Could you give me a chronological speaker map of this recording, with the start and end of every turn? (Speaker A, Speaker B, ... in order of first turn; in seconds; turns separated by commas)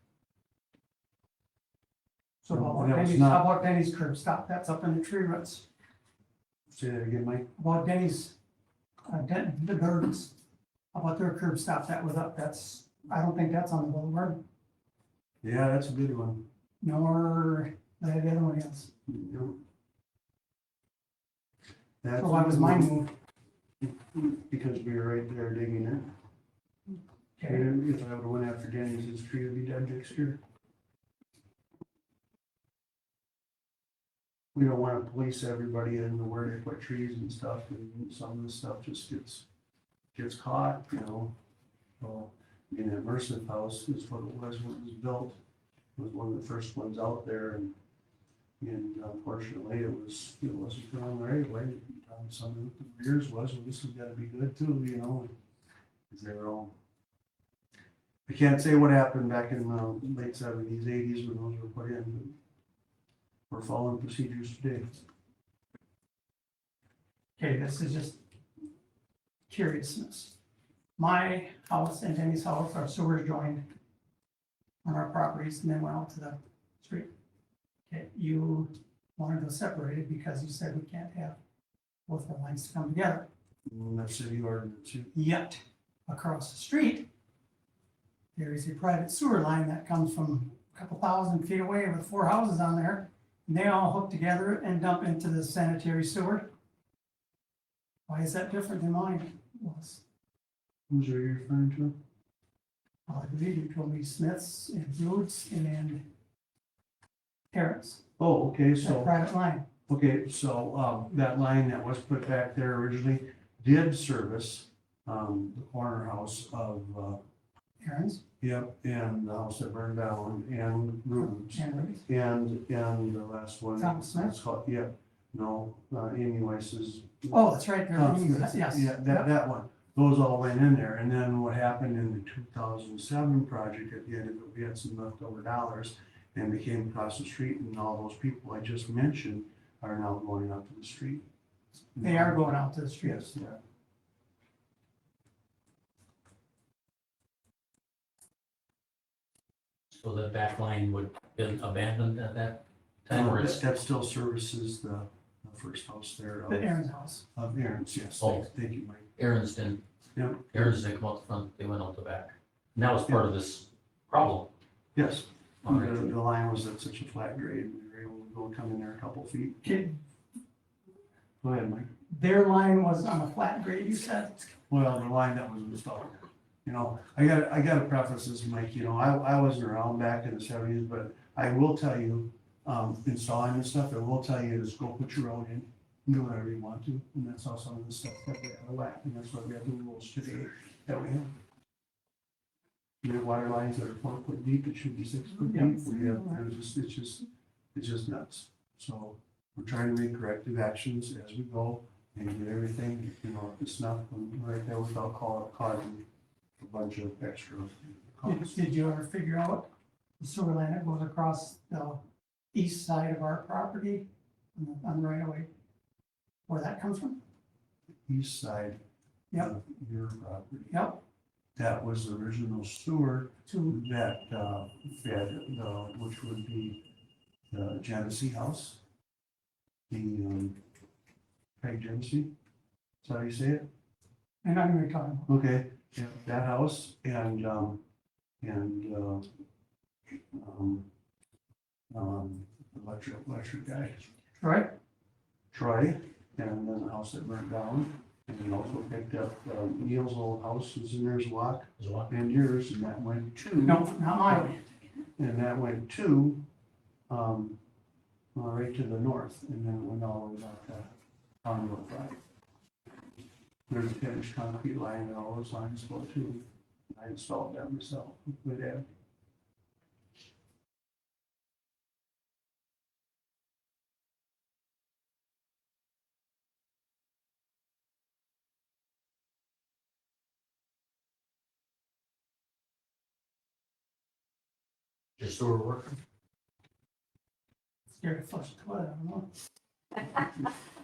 Speaker A: 2.4-5.6, Speaker B: 2.5-3.4, Speaker B: 6.7-7.5, Speaker A: 7.5-8.3, Speaker A: 9.1-10.3, Speaker A: 10.9-14.4, Speaker B: 15.4-16.4, Speaker A: 16.8-18.9, Speaker B: 19.1-19.6, Speaker B: 22.0-23.0, Speaker A: 22.2-23.1, Speaker B: 23.8-26.1, Speaker A: 27.4-27.6, Speaker B: 27.4-30.4, Speaker B: 34.5-39.5, Speaker B: 40.1-41.3, Speaker B: 42.0-45.4, Speaker B: 46.0-47.7, Speaker B: 48.6-55.3, Speaker B: 56.1-56.7, Speaker B: 58.2-62.4, Speaker B: 63.5-65.0, Speaker A: 67.4-68.2, Speaker A: 69.5-70.3, Speaker A: 71.0-73.7, Speaker A: 74.8-77.1, Speaker A: 77.9-81.3, Speaker A: 82.1-83.3, Speaker B: 83.7-85.1, Speaker A: 85.1-87.1, Speaker A: 88.3-96.5, Speaker A: 98.1-100.0, Speaker B: 100.9-102.0, Speaker A: 103.1-106.0, Speaker A: 107.5-108.0, Speaker B: 108.2-109.1, Speaker A: 108.8-109.7, Speaker B: 109.9-117.2, Speaker A: 117.8-118.2, Speaker B: 118.4-141.2, Speaker A: 121.3-122.0, Speaker A: 123.8-124.3, Speaker A: 127.3-129.2, Speaker B: 141.9-143.6, Speaker A: 142.0-143.2, Speaker C: 149.9-153.6, Speaker B: 153.1-156.8, Speaker A: 156.5-157.2, Speaker B: 157.3-159.1, Speaker C: 158.2-158.5, Speaker C: 159.2-159.8, Speaker B: 160.1-160.8, Speaker C: 160.5-164.5, Speaker B: 164.9-169.9, Speaker C: 165.6-166.1, Speaker A: 169.6-169.9, Speaker B: 171.4-171.9, Speaker A: 172.1-174.4, Speaker B: 174.7-191.3, Speaker B: 193.0-206.0, Speaker A: 195.5-196.4, Speaker B: 206.6-208.6, Speaker A: 208.2-212.0, Speaker A: 212.5-215.5, Speaker A: 216.5-217.2, Speaker B: 218.1-218.8, Speaker B: 219.3-220.8, Speaker A: 220.7-221.0, Speaker B: 221.6-226.8, Speaker A: 223.5-223.8, Speaker B: 227.5-228.8, Speaker B: 229.9-230.6, Speaker B: 231.6-232.3, Speaker B: 233.0-233.7, Speaker A: 234.4-235.3, Speaker B: 235.3-237.8, Speaker B: 238.4-239.3, Speaker B: 240.3-240.9, Speaker B: 241.9-244.1, Speaker A: 244.4-244.7, Speaker B: 245.5-254.6, Speaker C: 251.8-252.1, Speaker A: 253.6-254.6, Speaker B: 255.2-256.4, Speaker B: 257.1-257.6, Speaker B: 258.3-262.2, Speaker B: 263.7-268.9, Speaker C: 285.2-286.0, Speaker A: 288.0-289.3